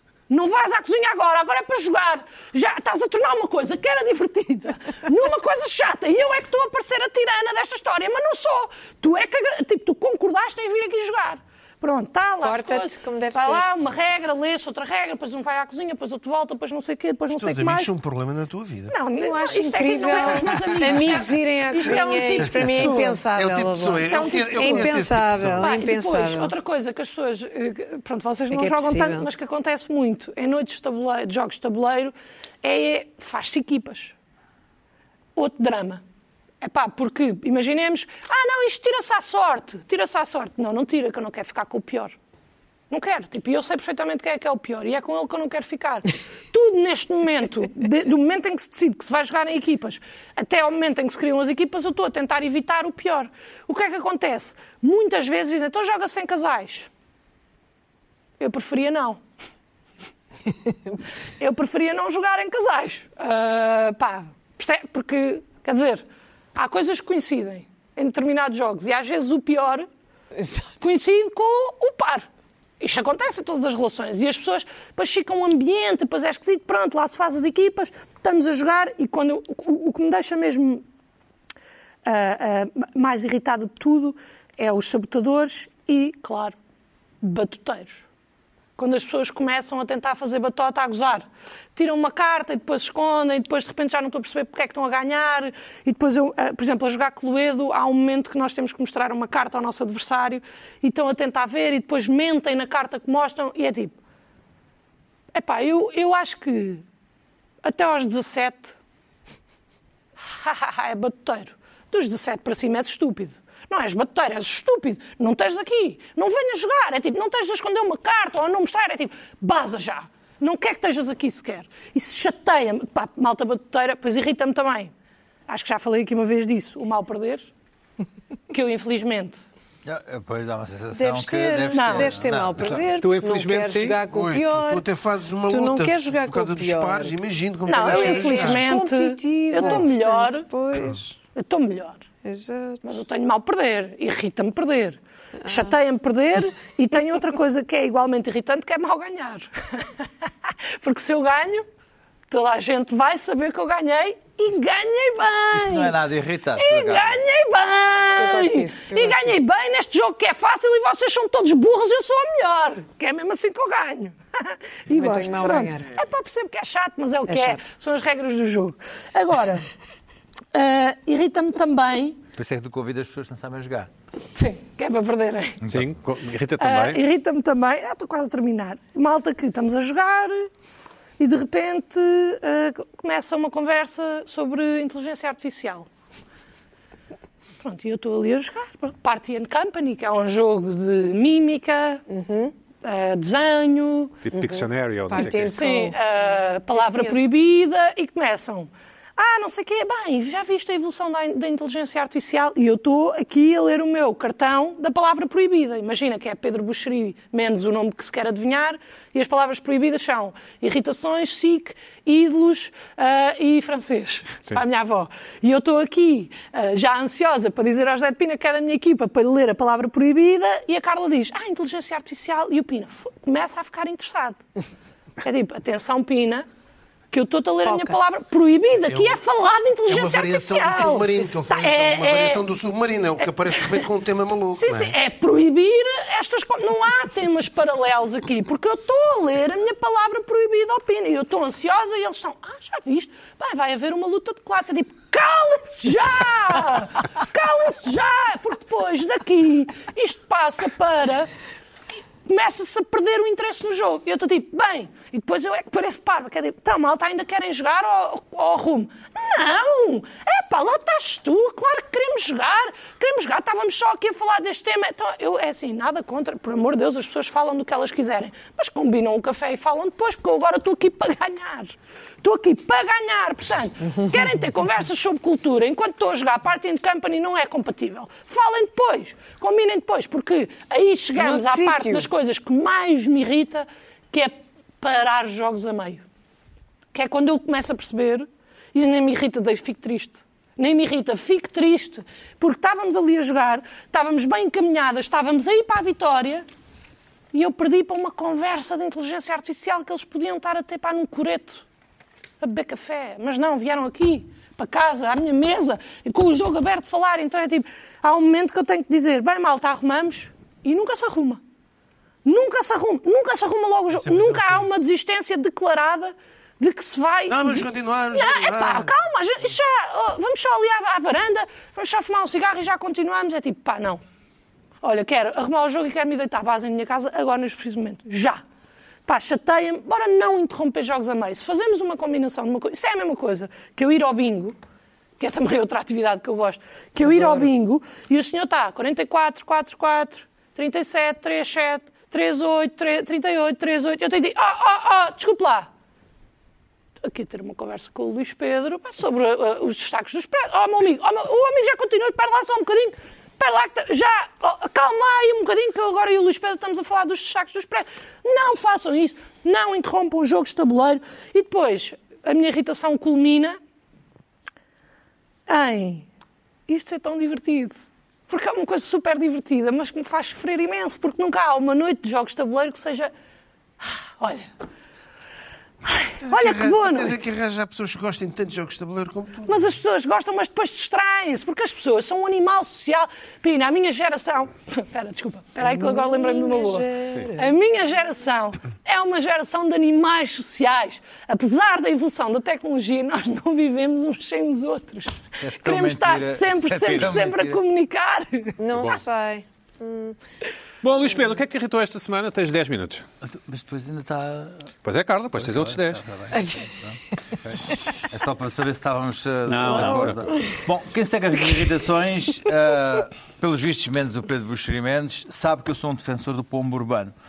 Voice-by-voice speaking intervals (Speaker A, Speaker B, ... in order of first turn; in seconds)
Speaker A: 0.3-17.9, 18.9-23.2, 24.0-25.0, 25.6-34.1, 35.4-36.0, 36.6-42.1, 42.9-56.9, 58.4-59.2, 61.4-66.0, 66.5-69.9, 70.8-72.3, 72.8-80.8, 82.0-86.5, 87.2-88.0, 88.8-91.2, 91.8-103.9, 105.3-106.8, 107.6-108.7, 110.4-124.9, 125.5-127.5, 128.5-129.4, 131.7-132.1, 137.7-140.5, 141.3-142.0, 142.8-151.6, 152.3-155.9, 156.6-169.7, 170.5-172.2, 174.3-175.6, 176.6-180.5, 181.2-185.9, 187.6-192.0, 192.8-194.2, 195.1-224.4, 225.2-226.4, 227.1-232.4, 233.4-233.8, 234.5-251.3, 252.2-286.0, 286.9-296.4, 297.3-301.6, 302.4-311.4, 312.2-324.0, 324.8-328.4, 329.1-334.6, 335.2-345.7, 347.0-363.6, 365.5-366.1, 366.7-367.7, 368.3-373.1, 373.8-374.5, 375.9-377.1, 379.5-398.6
Speaker B: 12.4-13.6, 19.1-26.5, 28.5-29.3, 70.3-70.8, 130.9-134.8, 135.5-137.1, 137.7-141.2, 142.2-142.8, 158.2-159.4, 164.9-165.9, 167.3-167.6, 192.1-192.5, 195.1-197.2, 227.6-228.0, 281.1-282.1, 337.1-337.4, 385.6-387.6, 398.6-400.2, 406.3-406.7, 409.7-410.5
Speaker C: 17.3-19.0, 20.5-21.1, 22.4-25.7, 134.1-138.6, 139.6-139.8, 228.9-229.2, 229.9-234.9, 313.9-314.7, 317.3-318.9, 376.2-379.7
Speaker D: 129.8-132.8, 155.5-157.2, 172.3-173.9, 175.6-175.9, 395.4-397.6, 403.3-404.7, 405.4-407.0, 408.0-417.1
Speaker E: 133.0-134.0, 175.7-177.0, 194.2-195.6, 396.9-397.1, 398.7-399.0, 400.8-403.0, 404.8-406.1, 409.4-410.2